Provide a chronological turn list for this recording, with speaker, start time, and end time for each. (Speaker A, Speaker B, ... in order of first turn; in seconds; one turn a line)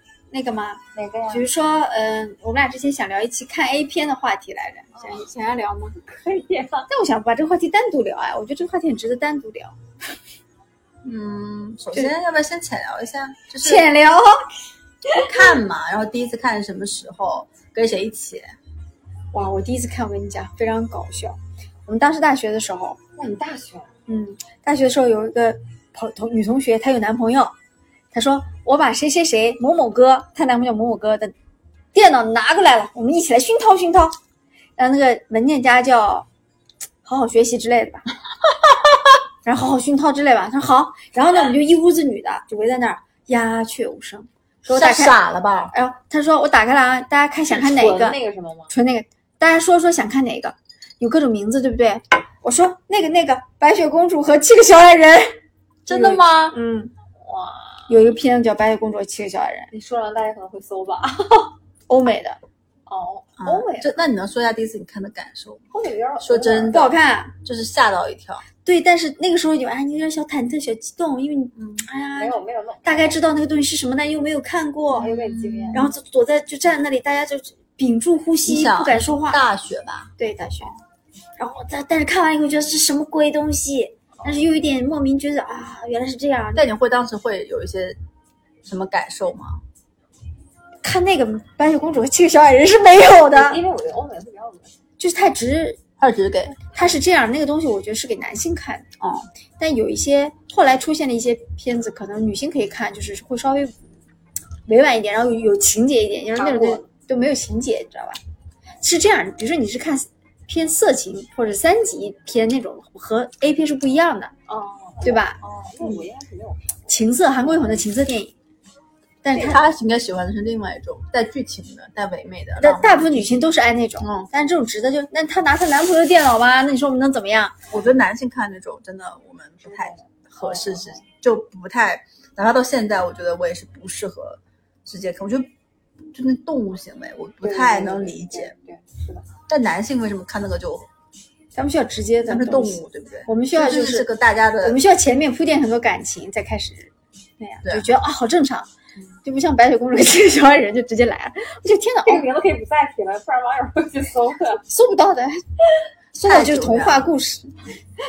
Speaker A: 0.3-6.0
Speaker B: 0.9-1.5
Speaker B: 4.9-5.2
Speaker B: 6.0-6.9
Speaker A: 6.9-9.8
Speaker C: 11.0-13.9
Speaker A: 13.6-14.5
Speaker C: 15.1-18.5
Speaker A: 19.3-23.0
Speaker B: 23.1-23.9
Speaker A: 24.1-27.5
Speaker A: 28.1-31.3
Speaker A: 31.9-34.1
Speaker A: 34.8-36.3
Speaker A: 37.0-38.0
Speaker A: 39.4-45.2
Speaker C: 44.6-45.7
Speaker A: 45.7-48.2
Speaker B: 47.5-48.7
Speaker A: 48.7-55.4
Speaker C: 55.9-56.5
Speaker A: 55.9-56.9
Speaker B: 57.2-58.0
Speaker A: 57.9-59.7
Speaker B: 59.7-61.5
Speaker A: 61.9-62.4
Speaker B: 62.9-63.9
Speaker C: 63.4-65.6
Speaker B: 65.7-66.9
Speaker C: 66.2-66.9
Speaker A: 66.7-67.3
Speaker C: 67.4-68.4
Speaker A: 68.6-75.1
Speaker C: 71.5-71.8
Speaker B: 72.2-73.2
Speaker B: 74.9-75.9
Speaker C: 75.0-75.9
Speaker A: 75.7-79.4
Speaker C: 78.4-80.1
Speaker A: 80.2-80.7
Speaker A: 81.4-86.6
Speaker C: 86.5-88.0
Speaker C: 88.6-89.6
Speaker A: 90.8-93.6
Speaker B: 93.2-94.7
Speaker A: 95.0-95.8
Speaker C: 96.0-96.7
Speaker A: 96.7-98.8
Speaker C: 99.0-99.3
Speaker A: 99.6-103.8
Speaker A: 104.7-108.2
Speaker B: 106.4-106.8
Speaker A: 108.8-114.3
Speaker B: 114.5-117.8
Speaker A: 115.0-116.1
Speaker A: 116.9-118.3
Speaker A: 119.2-119.6
Speaker C: 119.3-123.4
Speaker A: 122.6-127.7
Speaker C: 124.0-124.3
Speaker C: 127.7-135.5
Speaker B: 127.7-128.0
Speaker B: 129.6-131.0
Speaker C: 136.1-138.5
Speaker B: 137.4-139.2
Speaker C: 139.5-140.9
Speaker A: 141.5-144.1
Speaker C: 142.2-144.8
Speaker A: 144.6-148.7
Speaker C: 147.6-147.9
Speaker A: 149.2-152.2
Speaker B: 152.0-154.6
Speaker A: 154.7-155.4
Speaker C: 156.1-157.1
Speaker A: 156.2-157.5